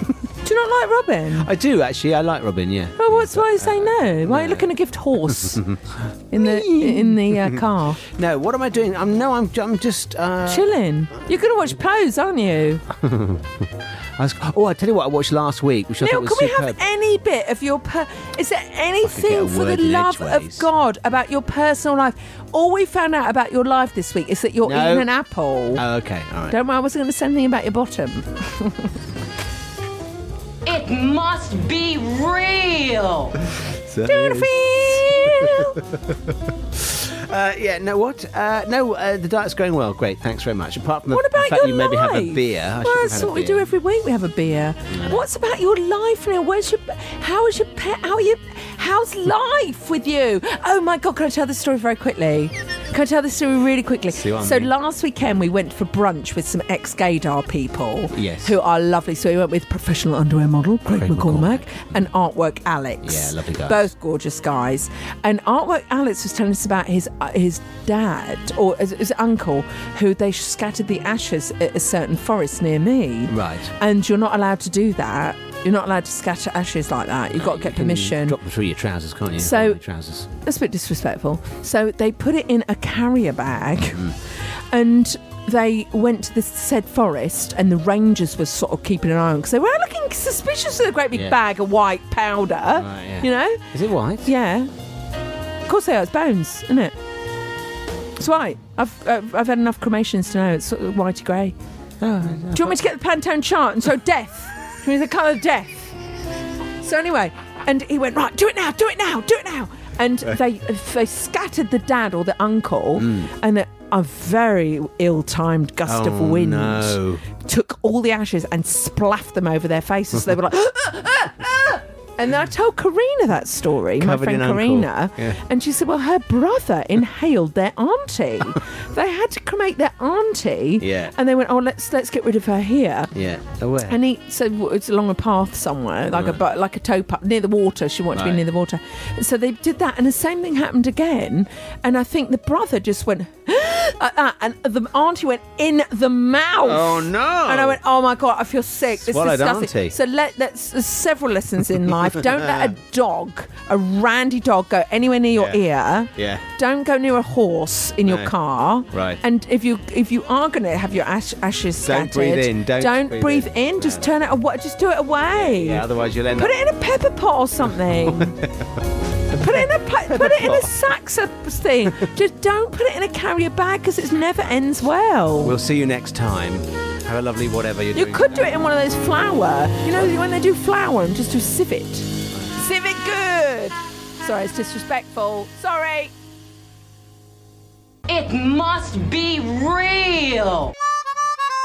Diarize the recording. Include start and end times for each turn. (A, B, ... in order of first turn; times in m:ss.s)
0:00.4-0:01.5 A
0:01.4-0:04.7 B
0:03.0-0:05.6 A
0:05.3-0:10.7 B
0:06.3-0:08.0 A
0:10.5-0:12.8 A
0:13.0-0:16.8 B
0:16.0-0:25.8 A
0:19.0-0:20.7 B
0:24.6-0:25.1 B
0:25.8-0:26.6 B
0:26.5-0:28.8 A
0:30.6-0:33.3 C
0:33.7-0:35.7 B
0:34.1-0:35.8 A
0:36.8-0:43.7 B
0:41.1-1:18.4 A
0:44.9-0:45.2 B
0:54.1-0:54.7 B
0:58.2-0:58.6 B
1:00.9-1:01.9 B
1:03.0-1:03.9 B
1:13.3-1:13.7 B
1:17.4-1:20.3 B
1:19.4-1:19.8 A
1:20.4-1:24.0 A
1:24.6-1:33.6 A
1:31.1-1:31.4 B
1:32.7-1:34.3 B
1:34.2-1:34.7 A
1:35.7-1:36.9 A
1:38.2-1:41.6 A
1:42.0-1:42.8 B
1:42.5-1:45.9 A
1:46.8-2:13.1 A
1:53.0-1:53.3 B
1:55.8-1:57.2 B
2:04.0-2:05.4 B
2:10.8-2:11.1 B
2:13.1-2:14.0 B
2:13.9-2:48.3 A
2:16.1-2:16.4 B
2:18.1-2:18.4 B
2:26.6-2:27.8 B
2:29.0-2:30.0 B
2:32.2-2:32.7 B
2:35.4-2:35.6 B
2:36.2-2:36.5 B
2:38.1-2:38.3 B
2:38.9-2:39.2 B
2:41.8-2:44.1 B
2:45.3-2:46.6 B
2:48.1-2:48.4 B
2:49.3-2:55.6 A
2:49.4-2:50.8 B
2:55.4-2:58.6 B
2:57.9-3:06.1 A
3:08.1-3:10.7 C